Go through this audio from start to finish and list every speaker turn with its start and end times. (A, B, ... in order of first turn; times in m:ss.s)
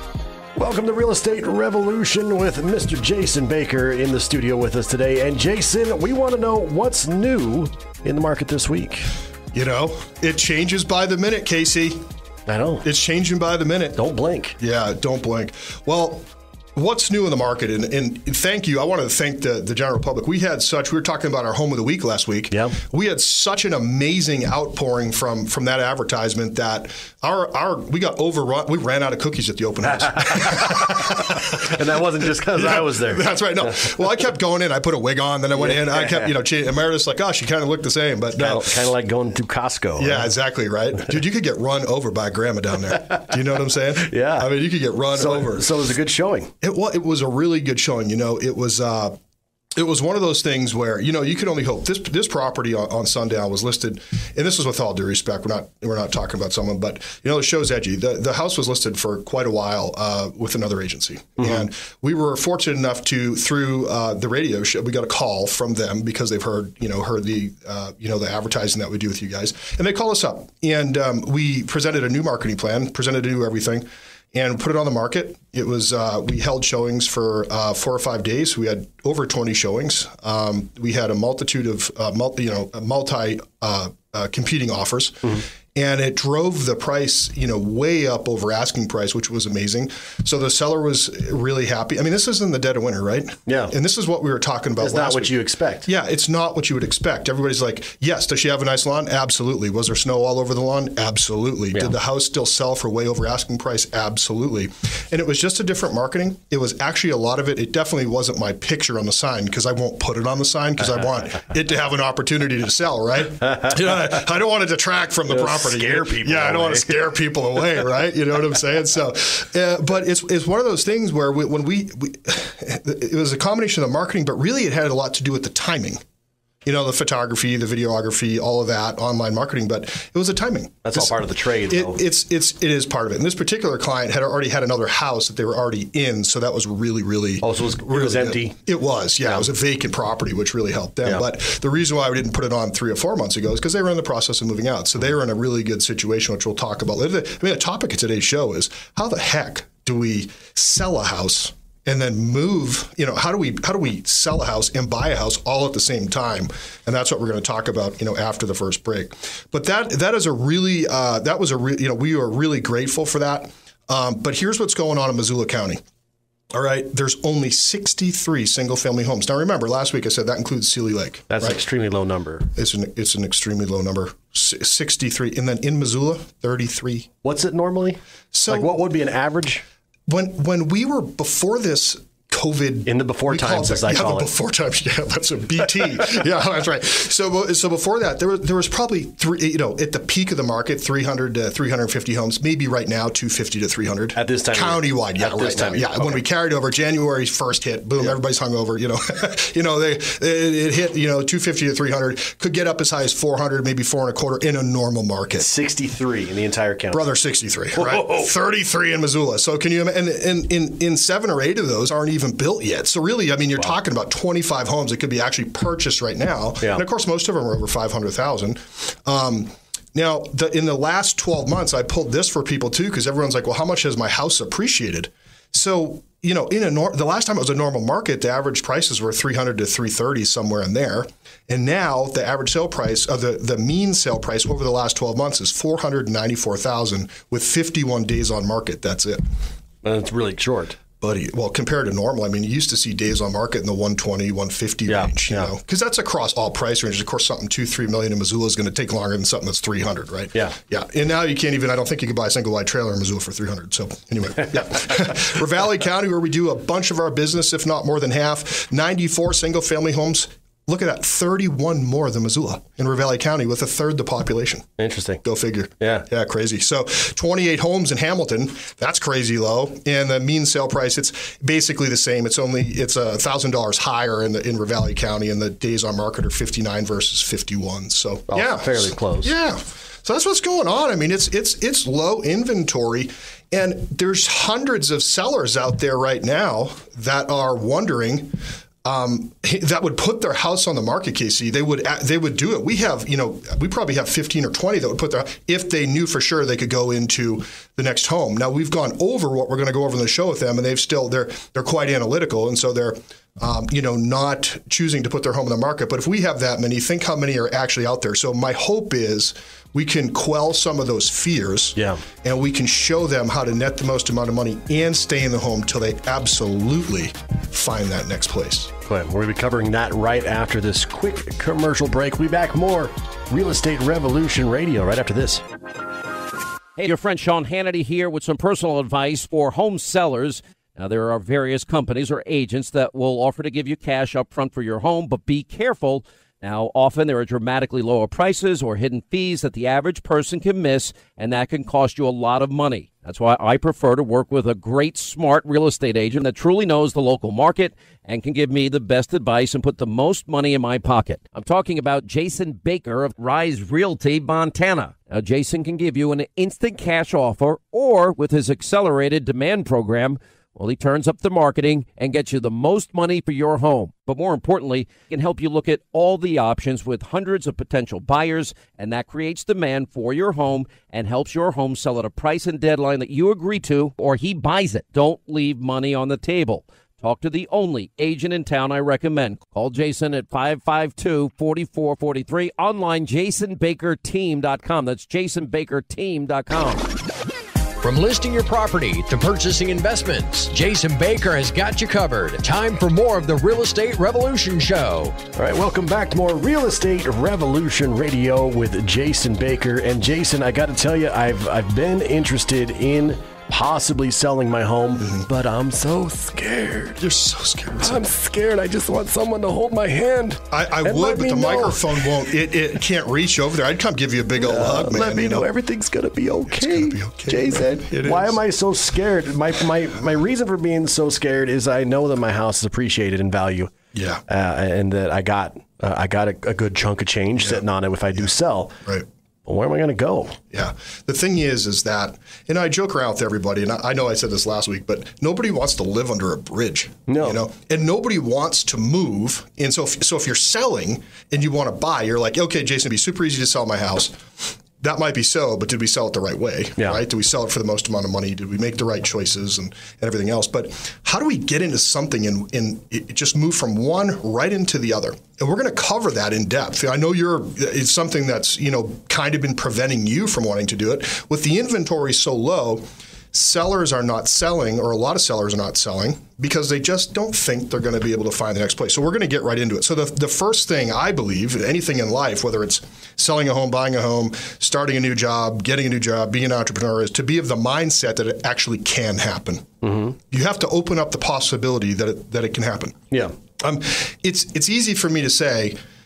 0:00.6-0:09.1 A
0:09.5-0:12.0 B
0:12.4-0:12.8 A
0:12.8-0:14.0 B
0:14.0-0:14.6 A
0:14.6-0:38.9 B
0:29.8-0:33.7 A
0:35.6-0:36.3 A
0:38.4-0:40.3 A
0:40.0-0:45.7 B
0:44.1-0:44.5 A
0:45.2-0:46.5 A
0:46.6-0:49.2 B
0:49.8-2:06.0 B
1:33.4-1:33.7 A
1:34.8-1:35.9 A
1:55.3-1:56.9 A
2:06.6-2:45.8 B
2:10.8-2:12.0 A
2:17.4-2:18.5 A
2:46.5-2:51.6 B
2:51.3-2:52.5 A
2:52.5-2:57.1 B
2:57.2-2:59.6 A
2:58.3-2:58.8 B
3:00.1-3:25.5 B
3:02.8-3:04.3 A
3:14.1-3:16.2 A
3:25.4-3:27.0 A
3:26.9-3:59.2 B
3:27.8-3:28.3 A
3:59.8-4:00.8 A
4:01.0-4:24.7 B
4:04.9-4:05.5 A
4:24.8-4:25.2 A
4:25.2-5:18.7 B
4:25.8-4:26.1 A
4:38.3-4:39.3 A
5:11.8-5:12.0 A
5:18.8-5:25.4 A
5:26.8-6:26.8 C
6:27.8-6:35.2 D
6:35.3-6:47.0 A
6:45.0-6:45.3 B
6:47.0-6:48.0 B
6:47.8-6:52.2 A
6:50.5-6:55.5 B
6:54.4-7:03.7 A
6:56.5-6:58.4 B
7:03.9-7:04.2 B
7:04.3-7:08.8 A
7:09.4-7:10.4 A
7:10.5-7:24.2 B
7:17.1-7:17.4 A
7:24.8-7:59.7 B
7:59.8-8:00.2 A
8:00.2-8:03.0 B
8:03.6-8:05.8 B